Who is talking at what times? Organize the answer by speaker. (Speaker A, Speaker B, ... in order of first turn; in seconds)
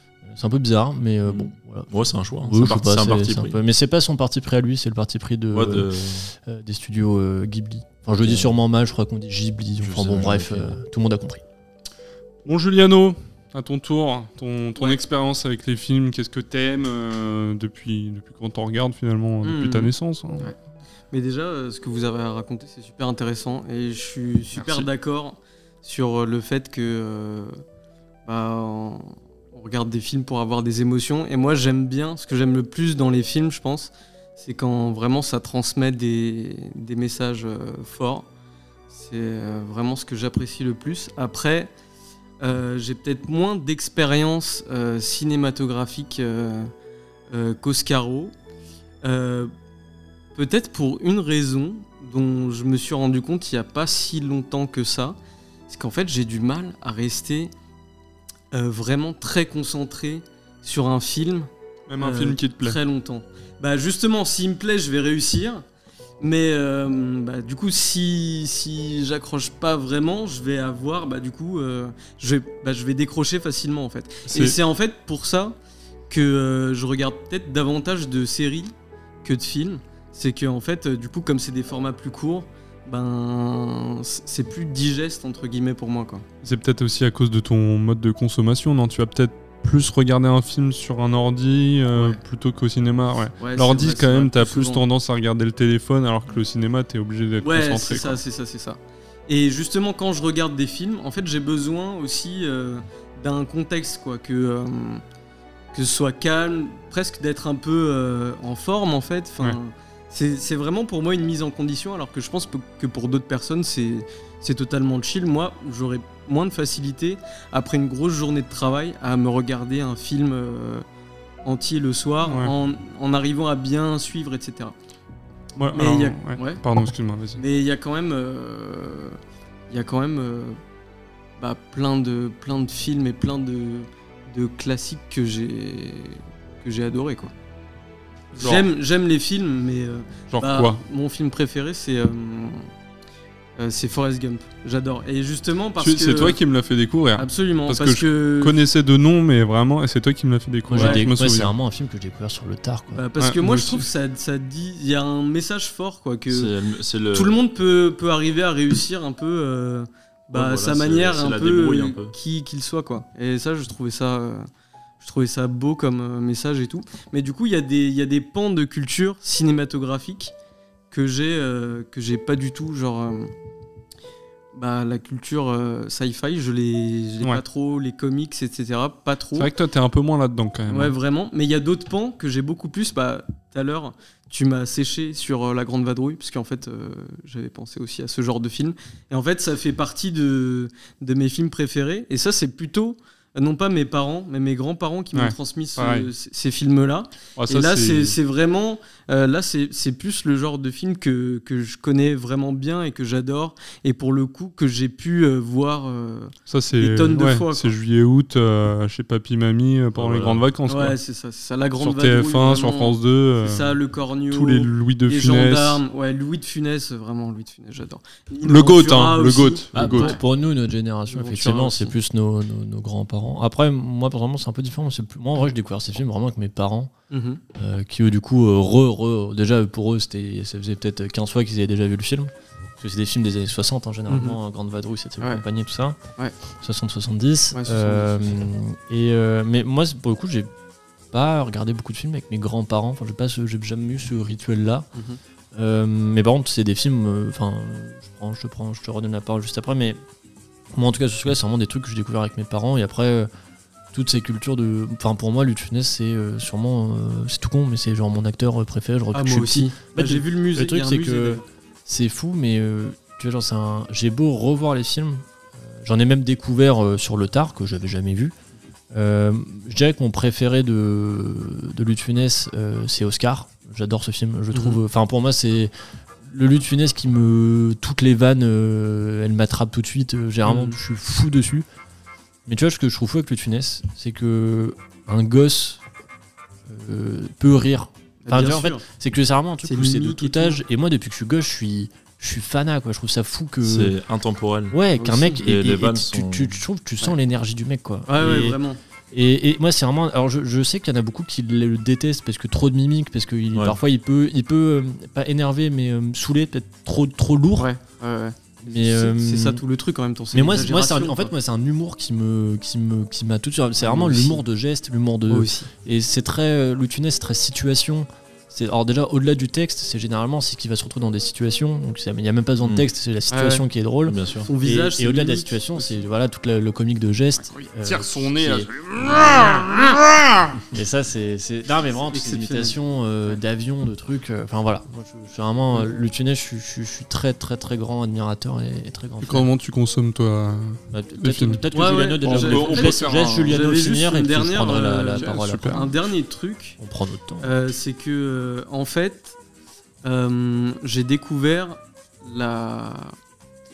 Speaker A: 0.2-11.4, 150.7-153.0, 219.8-226.9, 227.6-236.0, 236.6-240.5, 241.1-244.9, 245.5-250.0, 250.7-253.3, 253.9-268.4, 268.9-281.7, 282.5-285.8, 286.7-293.9, 294.7-298.6, 299.1-307.7, 308.6-309.6, 310.3-329.7, 330.7-339.5, 340.9-345.9, 346.8-347.5
Speaker B: 1.2-3.6, 5.5-6.3, 8.2-8.5, 9.8-10.8, 156.3-157.4, 160.3-162.2, 209.9-210.4, 293.6-294.8, 295.4-296.5, 322.6-322.9, 324.1-324.5
Speaker C: 12.4-20.5, 24.5-24.9, 61.9-62.8, 74.3-74.6, 86.4-98.2, 122.2-122.5, 125.6-127.4, 138.3-138.7, 140.3-140.8, 145.8-151.5, 153.2-153.9, 179.3-180.9, 195.1-196.1, 197.4-198.2, 206.5-211.0, 211.8-213.8, 214.3-215.8, 218.4-220.2, 327.5-330.5, 339.2-343.6, 345.0-345.9
Speaker D: 19.4-20.6, 21.1-27.6, 28.3-38.3, 38.9-41.7, 42.4-46.7, 47.3-48.3, 49.0-49.5, 50.4-55.2, 55.7-57.5, 58.5-65.7, 66.2-75.6, 76.1-86.2, 91.9-92.2, 93.4-94.8, 97.4-105.0, 105.7-120.8, 121.4-124.8, 125.7-126.6, 127.4-129.2, 129.7-130.6, 131.4-137.3, 138.4-142.7, 143.6-146.4, 147.2-148.6, 150.7-151.1, 152.9-156.5, 157.1-164.5, 165.0-170.3, 170.9-173.3, 174.5-179.5, 180.7-207.7, 210.7-220.2, 221.1-221.9, 227.1-227.4, 234.1-234.4, 237.5-238.4, 259.1-261.4, 274.5-274.8, 280.4-280.8, 288.2-288.8, 289.6-290.6, 295.0-295.4, 298.1-298.8, 307.6-311.3, 313.8-314.4, 315.3-315.7, 323.3-323.6, 324.5-326.0, 332.1-333.4, 341.7-346.8, 347.4-349.4, 350.0-353.2